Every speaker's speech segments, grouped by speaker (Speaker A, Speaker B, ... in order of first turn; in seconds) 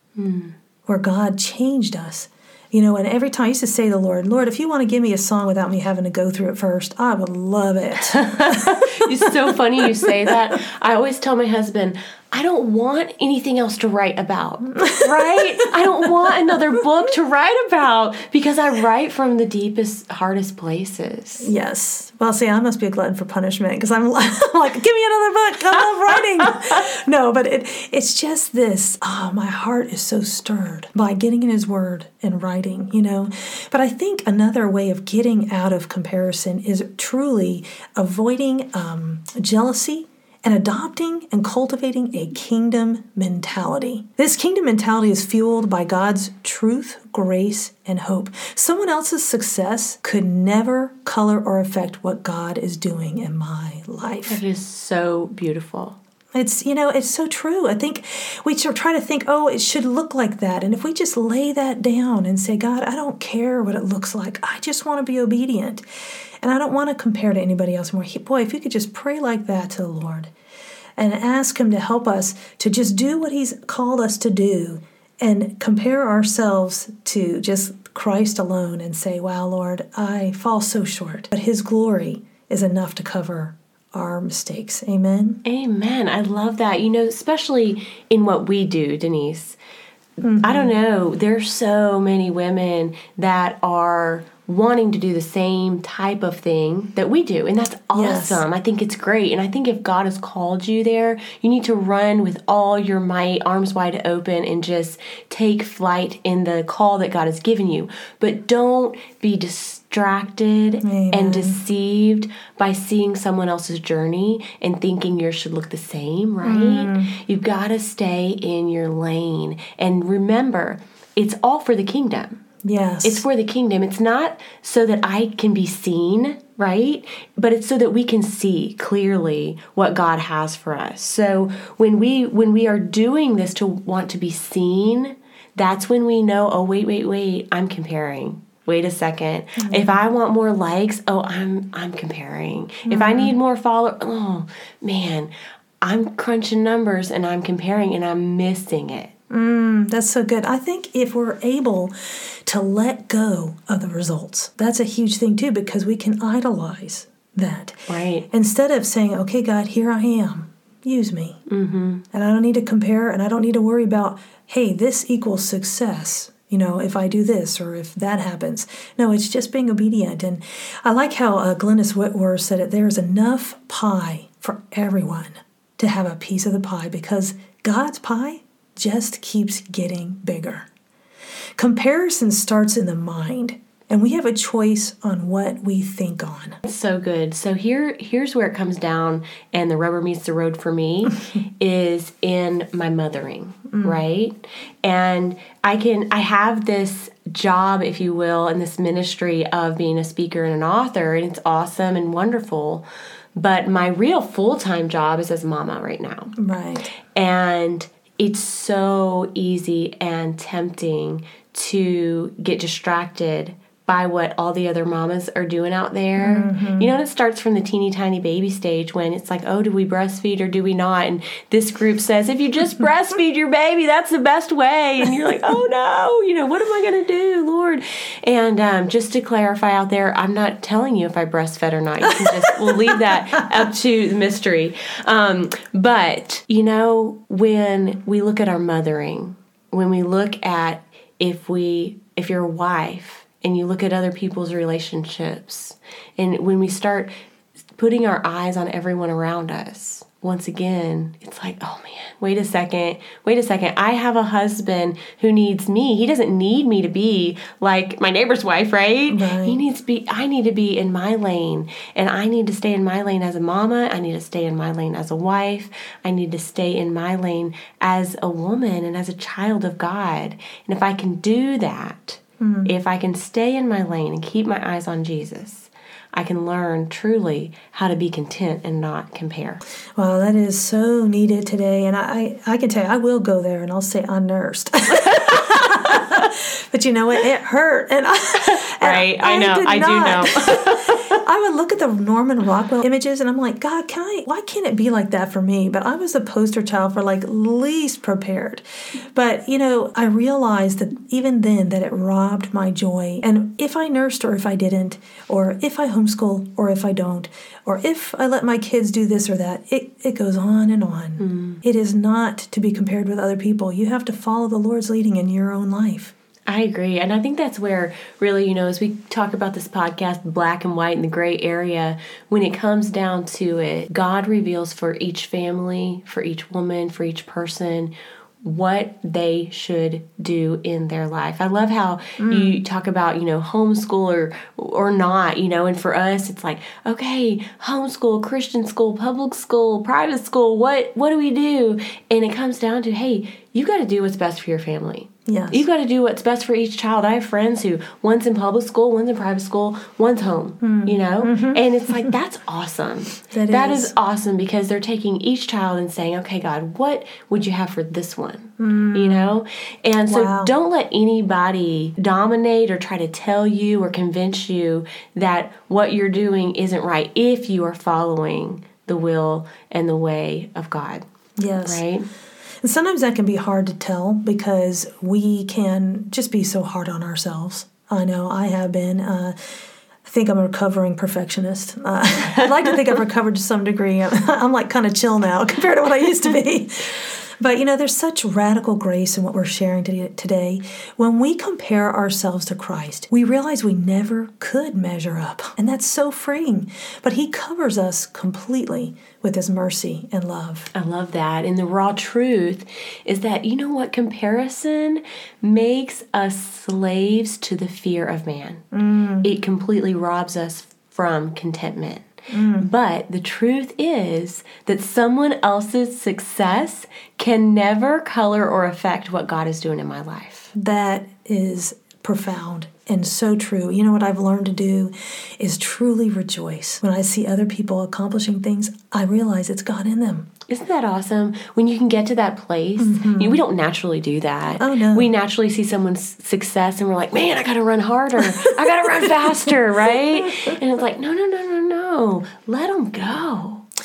Speaker A: 0.1-0.5, 8.1-21.5, 54.3-56.0, 85.4-89.6, 90.4-122.4, 123.0-149.1, 157.9-158.3, 161.5-162.0, 186.6-202.8, 203.3-206.3, 207.1-247.1, 247.8-279.6, 284.9-286.3, 288.5-291.2, 311.2-311.6, 316.5-371.0, 371.6-372.1, 400.8-408.6, 409.2-420.5, 430.5-443.6
Speaker B: 0.9-9.3, 14.7-15.7, 21.4-54.4, 56.3-65.8, 66.4-70.3, 71.0-85.4, 90.2-90.8, 97.9-98.4, 110.8-111.6, 116.4-117.1, 122.6-123.2, 139.6-140.0, 142.9-143.3, 149.3-151.9, 152.4-161.4, 162.1-180.7, 181.6-186.6, 193.7-194.0, 206.4-206.9, 216.2-216.9, 259.1-259.6, 272.4-272.8, 280.0-316.1, 332.2-332.6, 345.3-345.6, 350.6-352.1, 353.3-353.9, 358.6-359.4, 360.1-360.5, 371.4-371.8, 372.6-379.4, 380.0-400.7, 408.7-409.3, 412.3-412.7, 420.5-430.3, 432.8-433.4, 434.6-435.1